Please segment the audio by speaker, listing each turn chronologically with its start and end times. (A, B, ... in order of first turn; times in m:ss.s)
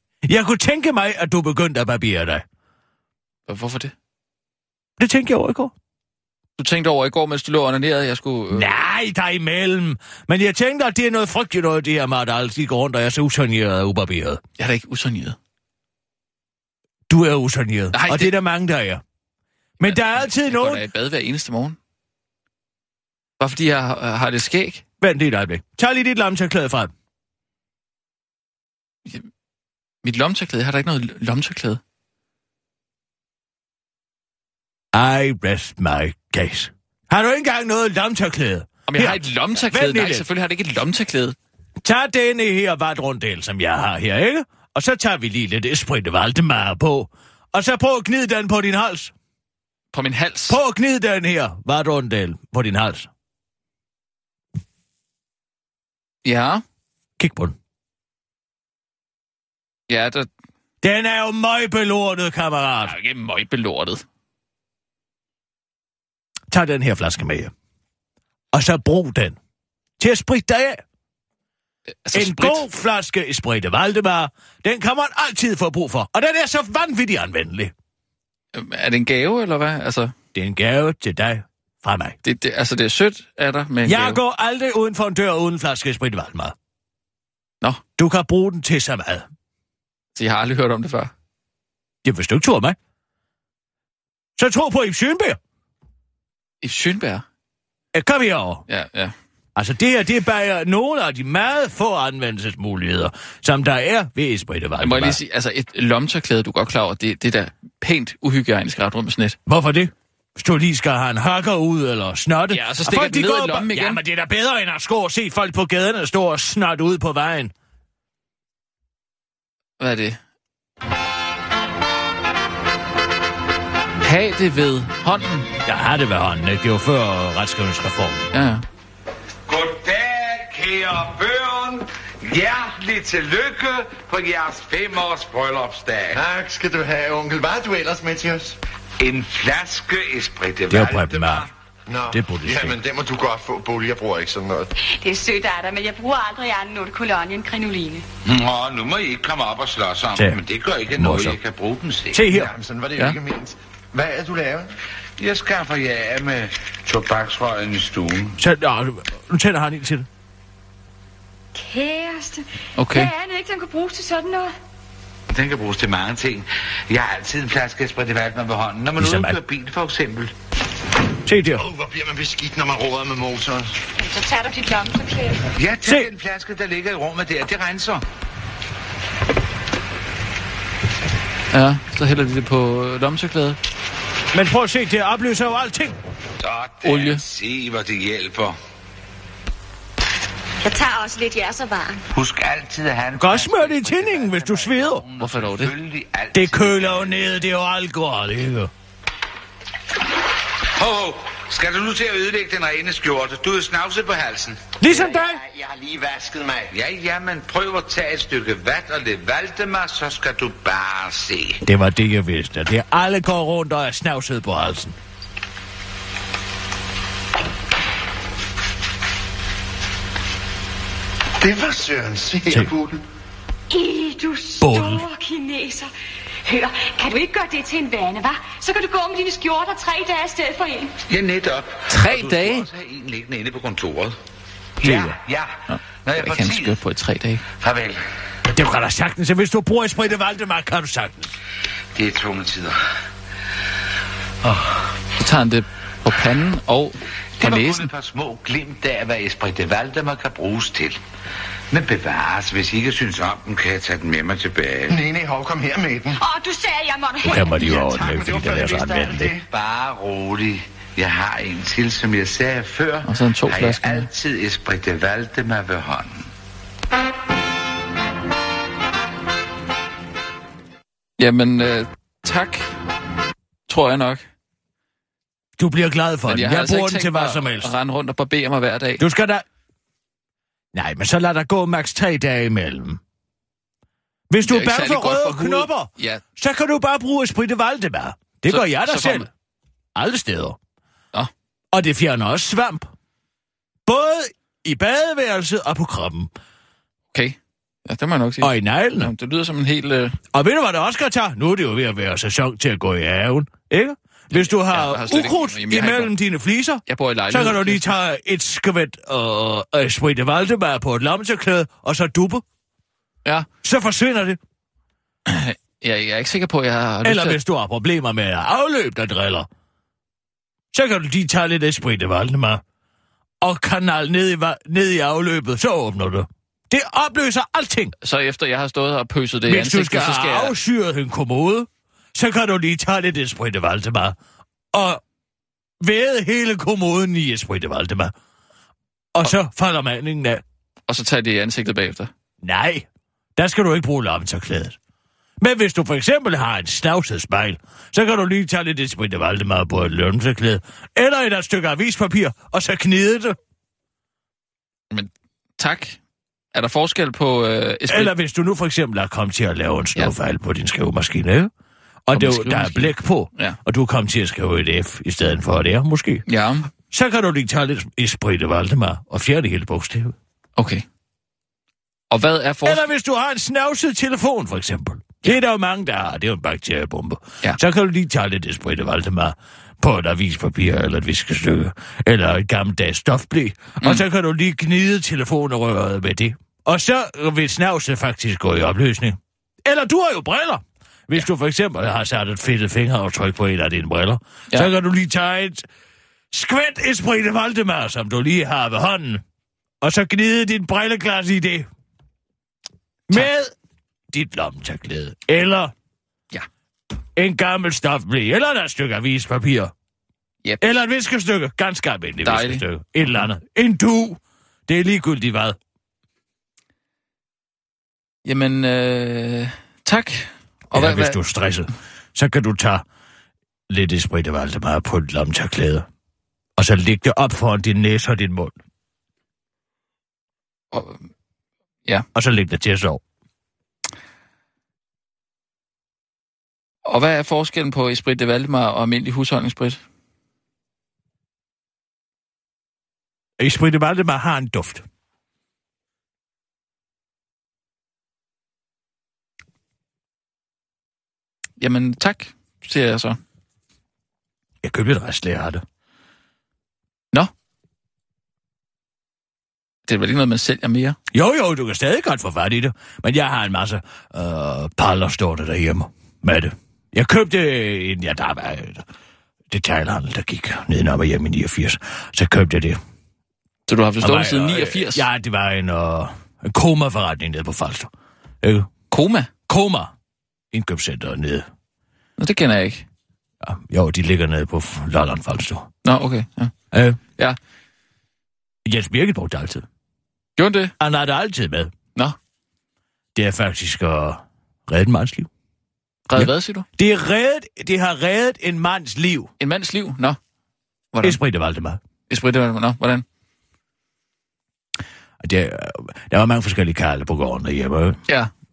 0:00.2-0:02.4 A
0:03.5-0:03.9 B
0:05.0-0:05.7 A
0:06.6-0:08.7 B
0:08.5-0:14.4 A
0:14.6-0:15.4 B
0:17.1-0:19.0 A
0:17.9-0:18.3 B
0:19.8-0:20.8 A
0:19.8-0:21.8 B
0:23.4-0:24.8 B
0:25.0-0:26.9 A
0:30.0-0:31.8 B
0:34.9-0:40.2 A
0:38.9-0:41.4 B
0:41.8-0:49.1 A
0:49.9-0:50.6 B
0:50.5-0:53.1 A
0:56.2-0:56.6 B
0:57.2-0:57.6 A
0:59.9-1:00.3 B
1:00.8-1:02.9 A
1:02.8-1:04.0 B
1:06.5-1:07.5 A
1:08.5-1:09.4 A
1:10.0-1:10.8 A
1:12.0-1:12.6 B
1:12.1-1:17.7 A
1:18.5-1:20.1 B
1:20.3-1:22.2 A
1:22.2-1:24.2 B
1:23.8-1:26.5 A
1:28.0-1:29.3 A
1:30.1-1:31.1 B
1:32.0-1:32.8 A
1:34.4-1:35.4 A
1:36.6-1:37.2 B
1:37.9-1:38.6 A
1:38.7-1:39.1 B
1:39.6-1:45.2 A
1:44.8-1:49.4 B
1:49.4-1:57.5 A
1:52.5-1:54.0 B
1:59.8-2:00.2 B
2:04.0-2:05.5 B
2:05.6-2:08.3 A
2:08.3-2:08.6 B
2:09.5-2:16.2 C
2:16.1-2:18.6 D
2:19.0-2:21.5 C
2:20.7-2:21.5 A
2:21.9-2:24.7 D
2:22.1-2:22.8 A
2:24.8-2:28.0 E
2:28.2-2:32.3 C
2:30.9-2:31.4 A
2:32.1-2:32.5 A
2:32.3-2:34.7 D
2:35.2-2:38.4 C
2:38.4-2:40.1 A
2:41.5-2:44.5 E
2:42.8-2:43.1 B
2:45.3-2:50.3 C
2:49.0-2:49.4 A
2:51.2-2:51.6 A
2:51.6-2:53.7 D
2:54.0-2:55.5 E
2:55.6-2:58.0 C
2:55.8-2:56.1 A
3:01.5-3:03.6 B
3:04.3-3:05.9 A
3:06.4-3:08.6 C
3:06.8-3:07.2 B
3:10.6-3:12.0 E
3:12.1-3:17.1 C
3:13.2-3:15.0 A
3:15.2-3:15.7 B
3:16.3-3:18.7 A
3:20.8-3:24.7 C
3:24.8-3:25.4 A
3:24.9-3:26.7 D
3:26.7-3:31.6 C
3:31.6-3:35.0 A
3:41.4-3:43.0 D
3:43.7-3:45.9 E
3:44.6-3:45.0 A
3:46.4-3:50.9 E
3:51.1-3:54.2 C
3:51.9-3:52.7 B
3:54.8-3:55.5 C
3:54.8-3:55.2 A
3:55.7-3:57.4 B
3:56.0-3:56.8 C
3:57.6-3:58.0 C
3:58.5-4:01.3 A
4:01.9-4:02.8 C
4:05.2-4:07.9 B
4:07.4-4:11.0 C
4:11.7-4:15.0 C
4:14.9-4:16.2 D
4:16.2-4:17.6 E
4:17.2-4:19.3 A
4:17.4-4:19.4 D
4:19.5-4:26.3 C
4:23.0-4:24.1 B
4:31.2-4:32.7 B
4:33.7-4:34.2 B
4:35.6-4:37.7 A
4:36.3-4:39.0 B
4:39.0-4:39.4 A
4:40.7-4:43.0 A
4:44.3-4:49.3 A
4:44.4-4:46.2 B
4:48.5-4:49.3 B
4:49.9-4:50.6 A
4:51.7-4:52.9 A
4:53.8-4:56.3 A
4:57.1-5:00.2 B
4:58.4-4:59.1 A
5:00.3-5:12.4 A
5:04.3-5:06.1 B
5:06.8-5:07.9 B
5:13.6-5:14.4 A
5:15.3-5:17.4 B
5:17.0-5:19.5 A
5:20.7-5:22.6 A
5:23.4-5:27.9 A
5:28.0-5:30.5 B
5:29.4-5:34.2 A
5:34.7-5:35.0 A
5:35.8-5:38.1 A
5:39.1-5:40.4 A
5:40.9-5:42.1 B
5:42.4-5:42.8 A
5:43.4-5:44.8 A
5:45.4-5:53.4 A
5:54.9-5:56.0 B
5:56.5-5:58.1 B
5:57.9-6:01.5 A
6:02.1-6:06.2 A
6:02.1-6:03.6 B
6:06.3-6:06.7 B
6:06.9-6:10.1 A
6:10.6-6:10.8 B
6:12.1-6:12.8 B
6:12.6-6:35.6 A
6:36.3-6:39.2 A
6:39.8-6:41.7 A
6:43.1-6:43.5 A
6:44.1-6:45.7 A
6:47.2-6:49.7 A
6:50.6-6:55.6 A
6:52.2-6:52.6 B
6:58.2-7:01.2 B
7:00.7-7:02.8 A
7:03.7-7:05.8 A
7:06.6-7:08.5 A
7:10.7-7:11.0 B
7:12.1-7:13.0 A
7:16.8-7:19.8 B
7:23.4-7:24.8 A
7:31.6-7:33.2 B
7:34.6-7:35.6 A
7:39.9-7:41.0 B
7:41.1-7:48.8 A
7:49.5-7:52.8 A
7:53.7-7:55.0 B
7:54.0-7:57.9 A
7:58.4-7:58.7 A
7:58.9-7:59.3 B
7:59.5-7:59.9 A
8:00.5-8:01.5 A
8:02.2-8:02.8 B
8:03.4-8:05.7 A
8:05.8-8:06.5 B
8:06.7-8:07.0 A
8:08.6-8:09.6 A
8:10.4-8:10.7 B
8:10.8-8:11.7 A
8:13.1-8:15.3 A
8:16.1-8:16.6 B
8:16.1-8:19.3 A
8:19.4-8:20.2 B
8:20.9-8:21.2 B
8:21.0-8:21.8 A
8:22.1-8:23.0 B
8:25.2-8:28.0 A